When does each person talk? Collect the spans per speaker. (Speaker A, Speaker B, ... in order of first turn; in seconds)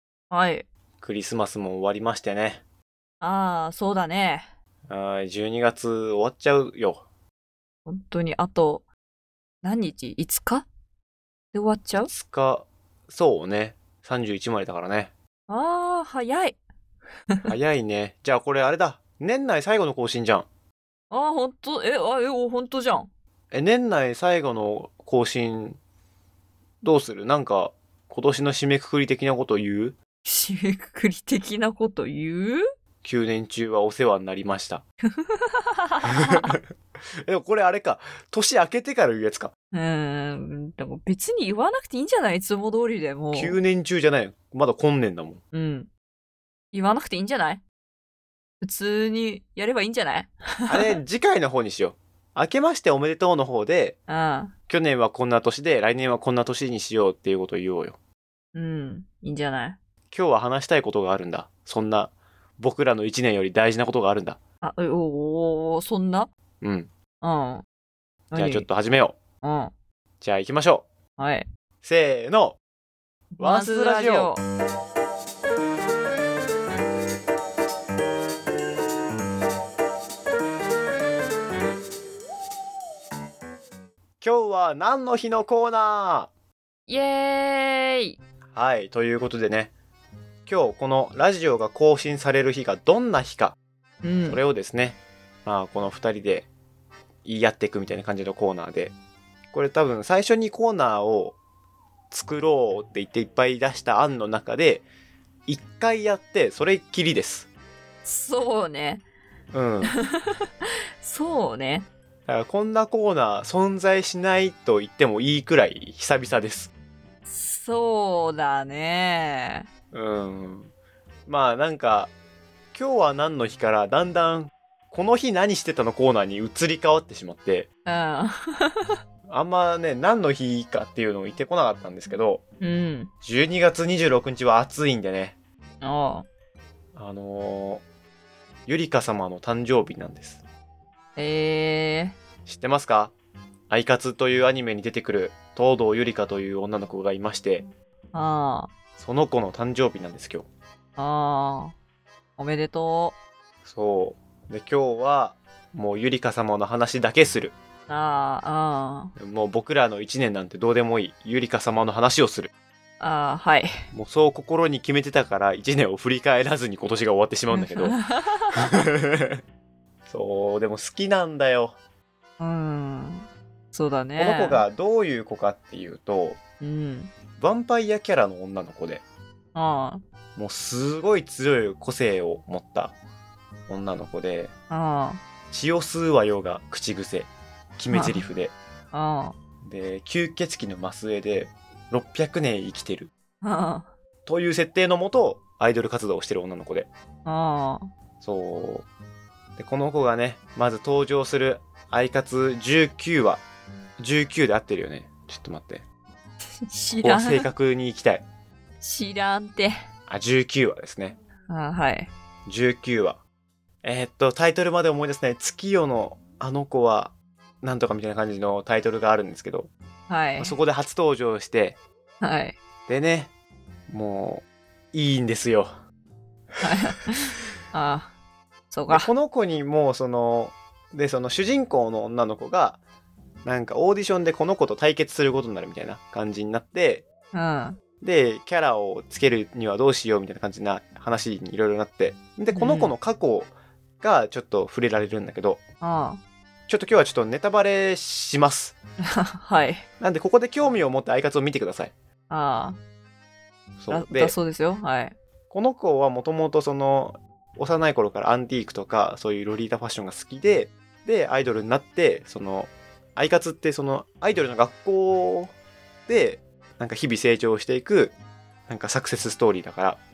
Speaker A: 0.3-0.7, 3.2-4.5, 7.9-8.8, 9.6-10.7, 11.5-12.1, 15.5-16.6, 21.1-23.1, 30.2-32.6, 35.1-36.6, 39.7-43.6, 45.5-45.9, 46.7-47.6, 48.6-50.9, 54.1-54.5, 58.5-59.8, 64.6-66.3, 67.2-67.6, 68.3-68.7, 69.4-69.7, 71.2-71.5, 73.3-74.4, 86.9-88.2, 94.0-94.4, 108.0-109.0, 109.8-110.5, 111.0-111.9, 117.2-119.7, 127.8-129.0, 132.6-133.1, 135.8-136.2, 141.2-142.2, 148.1-148.7, 151.0-151.8, 152.4-153.2, 157.9-159.1, 163.0-163.7, 167.5-168.9, 172.4-174.7, 176.6-177.1, 179.5-180.0, 184.7-185.2, 187.9-188.2, 188.9-189.3, 193.4-193.9, 197.2-197.9, 206.6-207.4, 208.8-209.7, 211.5-212.1, 220.1-220.6, 222.2-222.6, 226.6-228.1, 228.7-229.1, 237.3-237.8, 242.5-242.9, 245.8-246.2, 249.0-249.8, 252.3-252.8, 253.9-255.2
Speaker B: 1.0-2.6, 4.9-7.0, 12.0-15.1, 17.5-20.5, 23.5-25.8, 26.8-30.0, 33.0-34.8, 36.0-36.7, 37.2-39.5, 43.3-45.4, 50.7-54.0, 54.7-58.0, 60.1-64.4, 66.6-66.9, 68.3-69.2, 70.2-70.9, 71.8-72.6, 73.4-74.3, 84.2-86.3, 88.5-89.7, 90.5-93.5, 94.2-96.5, 97.2-98.9, 99.5-101.3, 102.1-104.8, 105.5-107.5, 109.5-109.9, 112.3-116.7, 119.9-120.7, 121.3-122.1, 122.7-127.7, 129.3-132.4, 133.2-135.4, 136.9-137.8, 138.7-140.4, 142.4-143.1, 143.7-147.7, 149.0-150.5, 153.6-157.6, 159.2-162.5, 163.9-167.9, 168.5-169.4, 170.1-171.8, 174.2-176.4, 177.4-179.0, 180.3-182.9, 183.7-184.5, 185.5-188.5, 189.6-193.1, 194.2-196.9, 198.2-198.9, 199.6-203.4, 204.0-205.8, 207.0-208.2, 210.1-211.2, 212.4-213.2, 213.8-219.7, 220.4-221.8, 222.9-223.3, 223.9-225.7, 228.9-232.8, 233.4-237.1, 238.0-245.6, 246.7-248.8, 250.0-251.9, 253.8-254.3, 255.5-265.5, 266.1-268.1, 268.7-270.0